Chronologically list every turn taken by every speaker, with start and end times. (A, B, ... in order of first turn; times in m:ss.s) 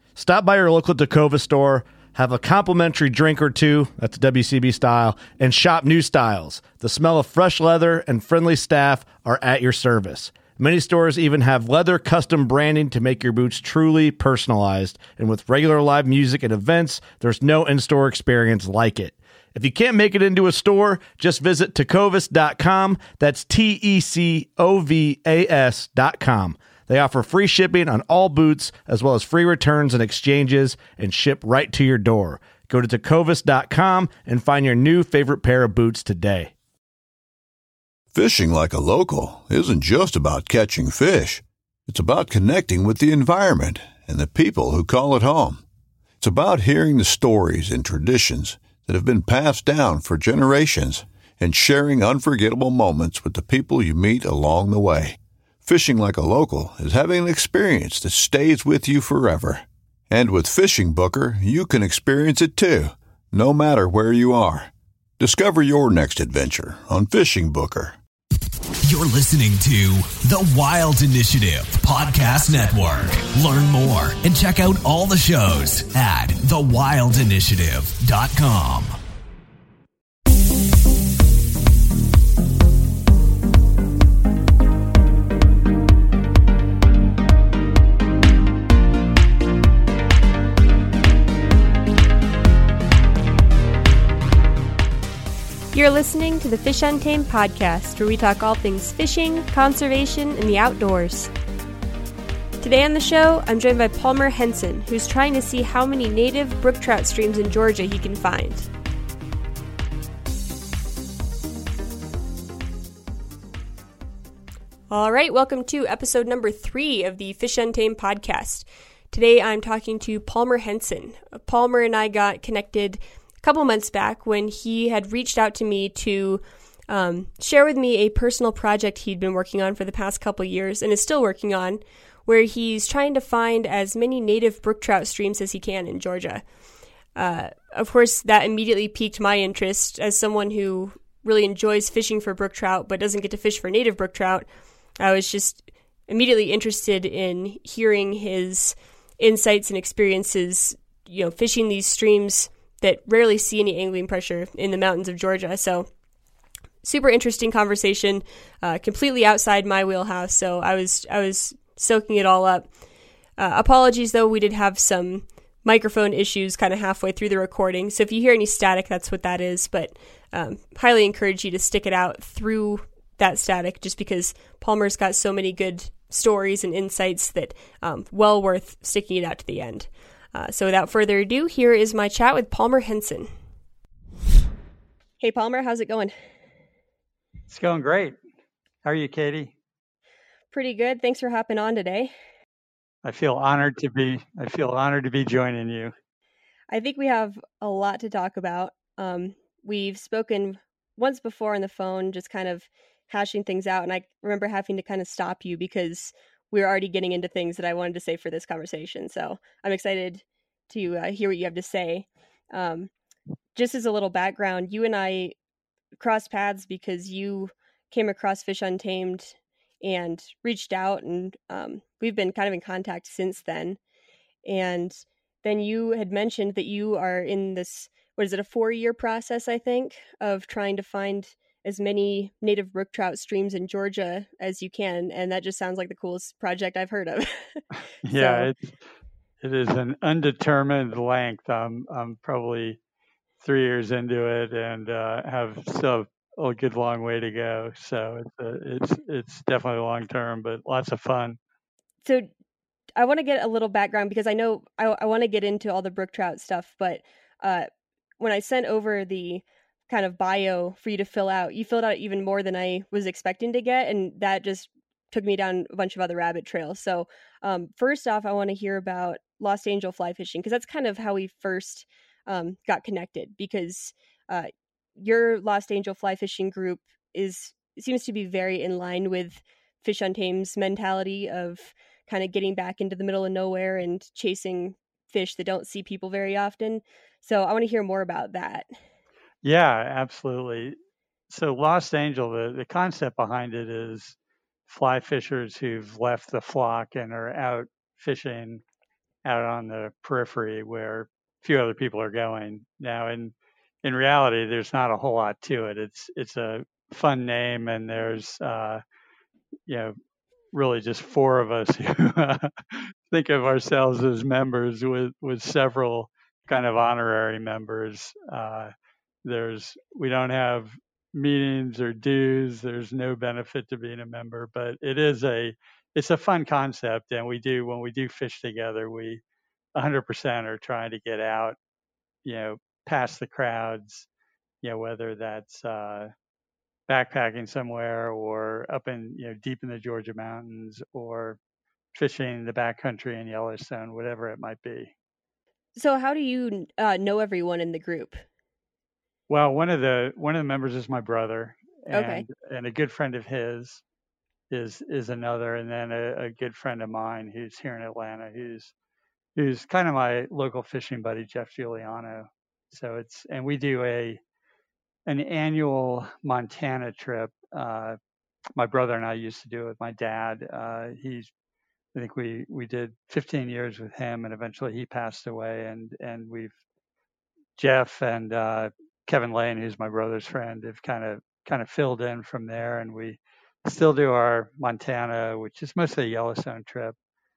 0:00.2-0:36.5 A
0:38.1-0:45.6 B
0:46.2-1:08.0 B
1:08.8-1:19.0 C
1:35.7-1:41.3 D
1:42.6-1:48.7 D
1:54.9-2:16.4 D
2:17.2-2:24.5 D
2:25.0-2:35.9 D
2:36.8-2:42.7 D
2:43.4-3:03.3 D
3:05.2-3:06.2 D
3:07.5-3:08.2 E
3:08.8-3:09.5 E
3:10.5-3:12.1 D
3:13.0-3:15.9 E
3:16.7-3:32.9 D
3:33.6-3:35.3 D
3:36.0-3:43.8 D
3:44.4-3:58.5 D
3:58.0-3:58.8 E
3:59.4-4:02.8 E
4:03.4-4:11.4 E
4:12.0-4:12.3 D
4:13.0-4:17.7 D
4:18.2-4:48.7 D
4:49.4-4:50.8 E
4:51.3-4:58.6 E
4:59.2-5:08.8 E
5:09.7-5:10.0 E
5:10.5-5:18.7 E
5:19.2-5:29.2 E
5:29.8-5:31.6 E
5:32.2-5:34.1 E
5:34.6-5:36.1 E
5:36.9-5:41.4 E
5:41.9-5:44.9 E
5:45.8-5:48.2 D
5:49.3-5:53.8 E
5:51.9-5:52.3 D
5:54.5-5:58.7 E
5:59.4-6:04.2 E
6:05.1-6:08.0 E
6:08.6-6:11.3 E
6:11.9-6:16.6 E
6:17.6-6:27.0 E